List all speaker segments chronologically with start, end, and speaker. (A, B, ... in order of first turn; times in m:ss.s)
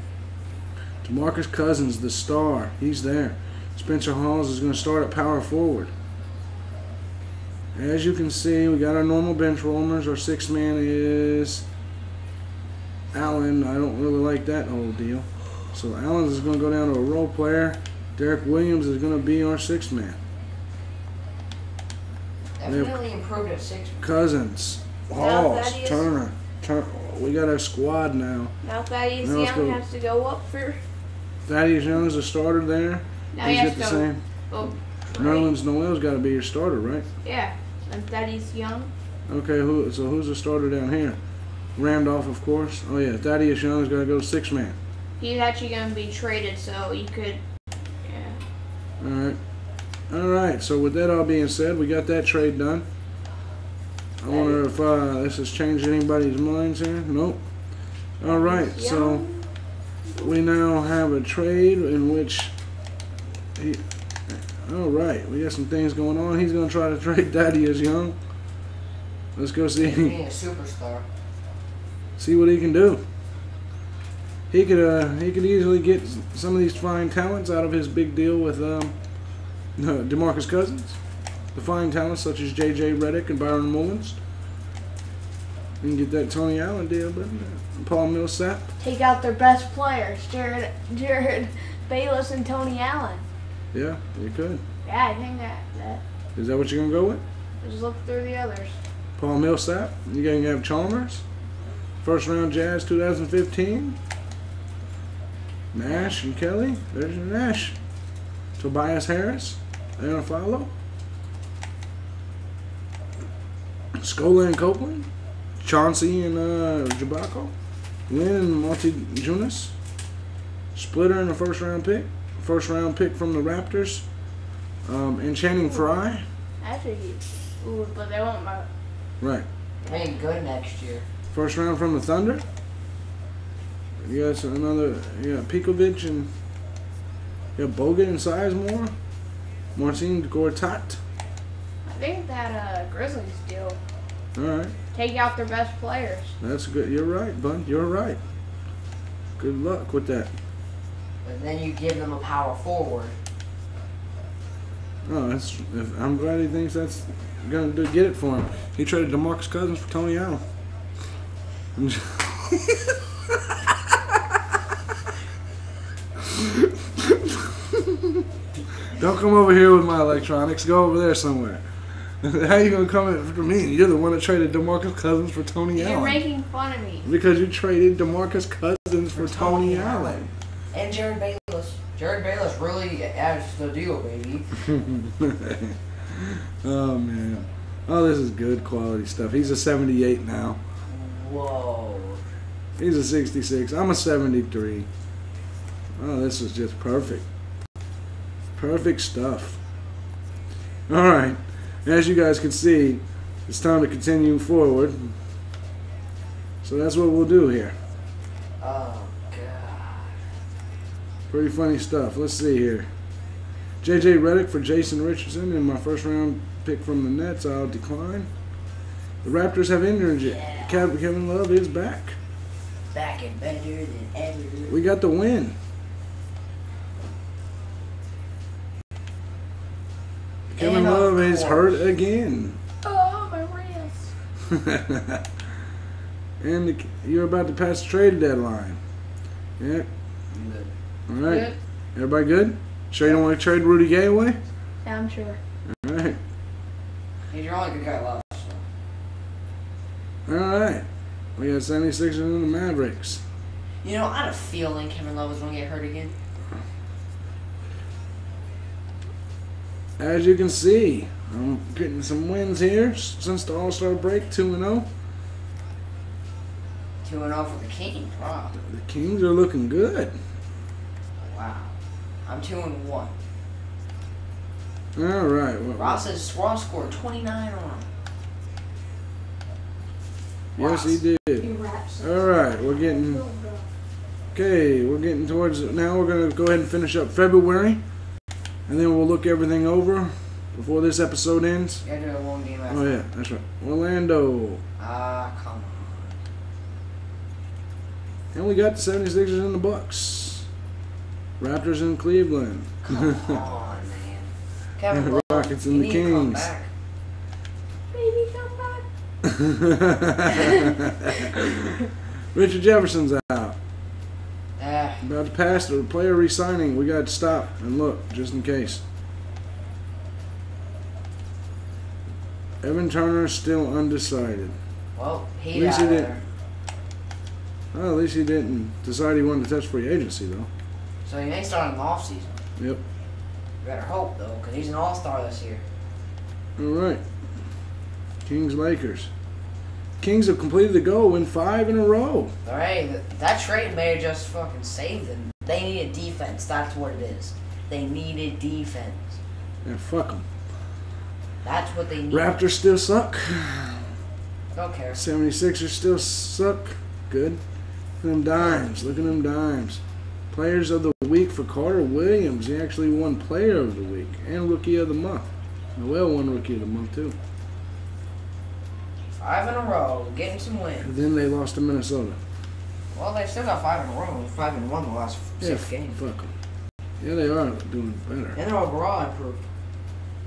0:01.0-0:05.9 A
0:07.7-0:11.6 A
0:13.1-0:20.2 A
0:22.6-0:24.0 B
0:22.7-0:23.0 A
0:24.0-0:28.5 A
0:25.1-0:26.1 C
0:28.6-0:30.8 C
0:29.2-0:29.8 A
0:31.4-0:34.2 A
0:33.3-0:35.5 C
0:35.1-0:37.0 A
0:37.2-0:38.9 C
0:39.3-0:41.2 A
0:41.8-0:44.8 A
0:45.2-0:47.4 C
0:48.0-0:48.4 C
0:49.0-0:49.4 A
0:50.1-0:52.8 A
0:54.2-0:57.4 A
0:54.2-0:54.6 B
0:58.2-0:59.3 A
0:58.2-0:59.5 C
1:00.2-1:02.5 A
1:03.6-1:08.2 A
1:09.4-1:10.2 A
1:09.8-1:11.0 B
1:12.2-1:13.0 A
1:14.5-1:18.9 A
1:19.8-1:21.0 A
1:21.5-1:24.2 A
1:25.8-1:28.7 A
1:28.8-1:33.2 C
1:33.7-1:34.6 A
1:34.8-1:36.0 C
1:36.4-1:37.2 A
1:37.6-1:38.8 C
1:39.2-1:41.2 A
1:42.0-1:44.0 A
1:45.7-1:47.8 A
1:48.6-1:50.7 A
1:53.9-1:55.1 A
1:55.6-1:57.5 A
1:58.1-1:59.7 A
2:00.7-2:04.0 A
2:04.8-2:06.2 A
2:06.6-2:08.7 C
2:09.2-2:09.4 A
2:09.8-2:11.0 B
2:11.3-2:12.4 A
2:14.0-2:16.3 A
2:17.6-2:18.9 A
2:19.7-2:21.0 A
2:21.8-2:23.8 C
2:24.4-2:24.7 A
2:24.9-2:26.3 C
2:26.4-2:28.2 A
2:29.4-2:30.3 A
2:31.2-2:33.2 B
2:35.0-2:40.4 A
2:41.8-2:44.6 A
2:46.2-2:48.3 A
2:48.8-2:56.2 A
2:55.7-2:57.0 C
2:57.0-3:00.3 A
2:59.1-3:04.7 B
3:04.7-3:10.6 A
3:10.9-3:12.2 B
3:12.8-3:14.9 A
3:16.0-3:17.3 A
3:18.6-3:19.6 A
3:20.9-3:25.1 A
3:26.6-3:27.8 A
3:28.6-3:30.2 B
3:31.3-3:32.9 A
3:33.8-3:38.3 A
3:39.2-3:42.2 A
3:40.2-3:40.8 B
3:42.9-3:44.7 B
3:44.7-3:45.6 A
3:50.5-3:51.9 B
3:50.5-3:52.6 A
3:52.8-3:54.1 C
3:54.4-3:55.3 A
3:56.4-3:58.8 A
3:59.6-3:59.9 A
4:00.3-4:00.7 B
4:01.1-4:04.4 A
4:04.8-4:05.4 C
4:05.7-4:06.2 A
4:07.3-4:08.6 B
4:10.2-4:10.8 A
4:11.4-4:13.2 A
4:13.8-4:16.1 B
4:20.0-4:24.9 A
4:27.0-4:28.5 B
4:28.5-4:30.2 A
4:31.2-4:33.2 B
4:35.0-4:36.0 A
4:35.8-4:37.9 B
4:40.6-4:41.5 A
4:40.6-4:41.0 B
4:41.4-4:43.6 C
4:42.0-4:43.2 A
4:44.3-4:47.8 A
4:48.7-4:51.8 A
4:51.8-4:53.0 B
4:52.7-4:54.6 A
4:54.8-4:56.2 B
4:58.3-5:00.4 A
5:01.4-5:03.4 A
5:02.8-5:06.7 B
5:04.9-5:06.5 A
5:07.9-5:08.8 C
5:09.2-5:13.6 A
5:10.4-5:10.7 C
5:14.6-5:15.0 B
5:15.0-5:18.8 A
5:22.6-5:24.6 A
5:25.0-5:26.2 B
5:25.5-5:26.1 A
5:27.7-5:30.5 A
5:31.0-5:32.4 B
5:32.6-5:32.8 A
5:33.6-5:35.6 B
5:36.6-5:37.0 A
5:38.2-5:39.1 A
5:40.0-5:42.3 A
5:42.4-5:49.2 B
5:49.6-5:50.2 A
5:51.4-5:52.4 B
5:52.1-5:53.9 A
5:54.5-5:55.0 B
5:54.9-5:57.4 A
5:58.0-6:07.2 A
5:58.4-5:59.0 B
6:09.2-6:10.9 B
6:10.8-6:12.2 A
6:12.9-6:16.0 B
6:15.4-6:16.3 A
6:17.0-6:18.4 A
6:18.3-6:19.4 B